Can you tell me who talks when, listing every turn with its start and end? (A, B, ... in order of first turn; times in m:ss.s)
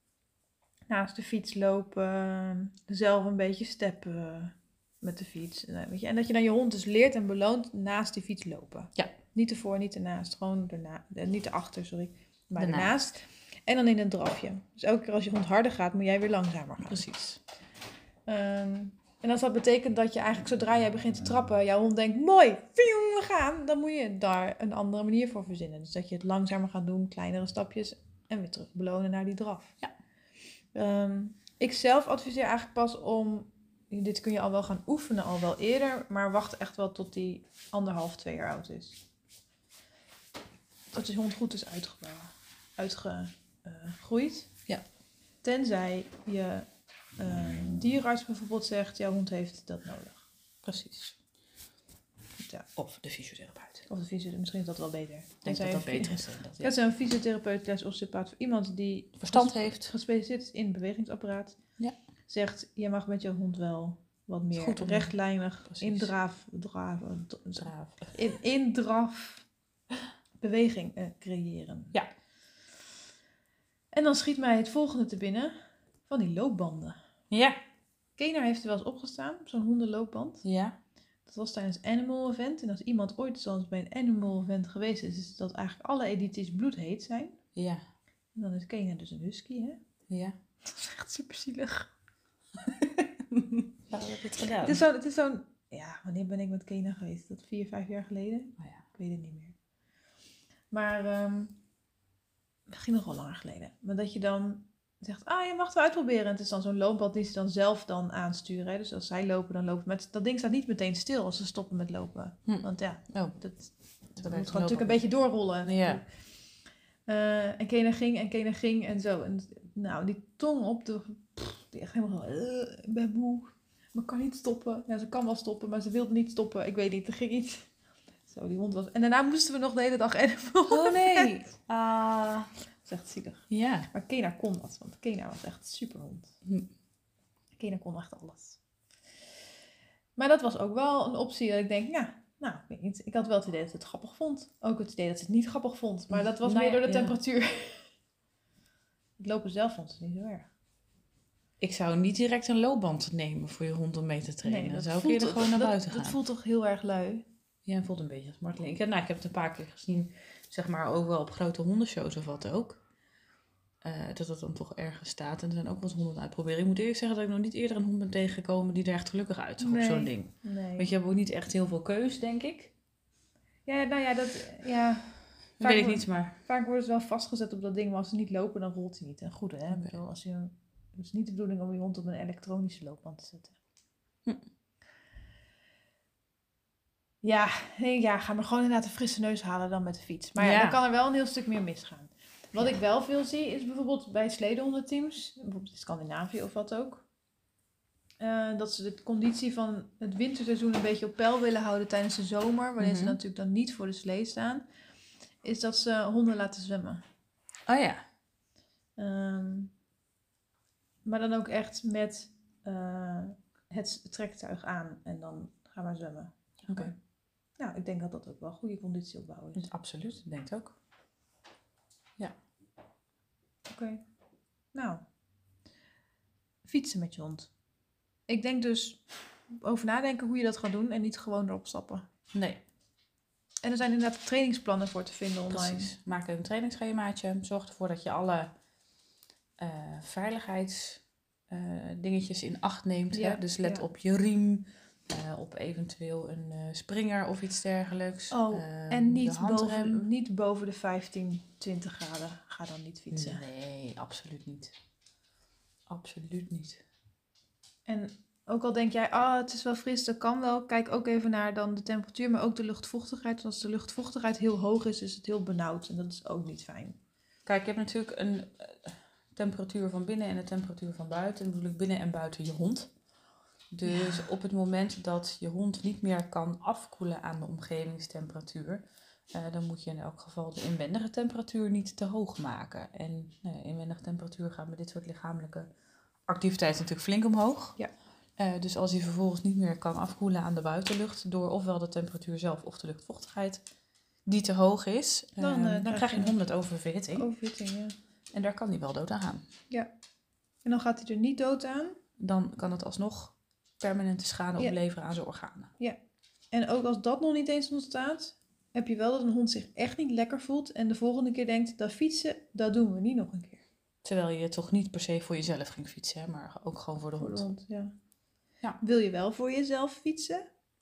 0:00.9-0:17.0 A
0:12.6-0:13.0 B
0:16.8-0:17.4 B
0:18.3-0:29.8 A
0:30.7-0:39.0 A
0:40.9-0:44.5 A
0:45.4-0:50.2 A
0:50.6-0:51.2 B
0:52.4-0:52.7 A
0:52.8-0:53.9 B
0:53.9-1:01.6 A
0:55.4-0:56.7 B
0:59.2-0:59.9 B
1:02.3-1:09.5 A
1:04.5-1:05.1 B
1:05.7-1:06.1 B
1:07.6-1:08.1 B
1:10.4-1:12.0 A
1:13.9-1:15.6 A
1:16.1-1:17.0 A
1:17.3-1:17.6 B
1:18.2-1:20.4 A
1:20.4-1:20.8 B
1:21.3-1:27.4 A
1:27.6-1:27.8 B
1:28.4-1:29.8 A
1:30.1-1:30.4 B
1:30.7-1:31.9 A
1:33.3-1:34.8 B
1:34.6-1:39.6 A
1:40.7-1:41.6 A
1:42.7-1:56.0 A
1:52.5-1:53.4 B
1:54.2-1:55.0 B
1:55.6-1:56.0 B
1:57.1-2:07.7 A
2:08.3-2:11.4 A
2:10.7-2:12.5 B
2:12.8-2:16.3 A
2:13.5-2:13.9 B
2:17.6-2:18.6 A
2:20.2-2:27.9 A
2:26.1-2:27.2 B
2:29.2-2:30.5 A
2:31.6-2:36.2 B
2:34.4-2:37.2 A
2:37.7-2:42.8 B
2:43.8-2:52.7 B
2:49.6-2:50.9 A
2:53.7-3:03.6 A
2:55.6-2:56.4 B
3:07.2-3:17.0 A
3:10.4-3:10.8 B
3:18.2-3:24.6 A
3:22.8-3:23.2 B
3:25.4-3:27.0 A
3:27.7-3:28.0 B
3:29.0-3:29.7 A
3:31.0-3:37.0 A
3:36.7-3:36.9 B
3:37.6-3:39.7 A
3:39.6-3:40.8 B
3:43.7-3:44.0 A
3:44.7-3:45.0 A
3:46.6-3:47.5 A
3:48.3-3:49.0 A
3:49.6-3:52.0 A
3:52.3-3:52.6 B
3:53.6-3:55.9 A
3:55.5-3:58.5 B
3:59.6-4:10.0 B
4:03.1-4:03.9 A
4:08.3-4:13.4 A
4:13.1-4:14.7 B
4:15.9-4:16.8 B
4:17.9-4:27.0 A
4:27.5-4:32.9 B
4:33.7-4:45.7 B
4:33.9-4:34.2 A
4:46.3-4:47.8 B
4:48.4-4:53.6 B
4:54.3-4:57.3 B
4:55.4-4:56.4 A
4:57.2-4:58.0 A
4:58.3-4:59.5 B
5:00.6-5:02.0 A
5:02.2-5:05.7 B
5:06.5-5:13.6 A
5:14.0-5:17.5 B
5:17.2-5:17.9 A
5:18.8-5:20.5 A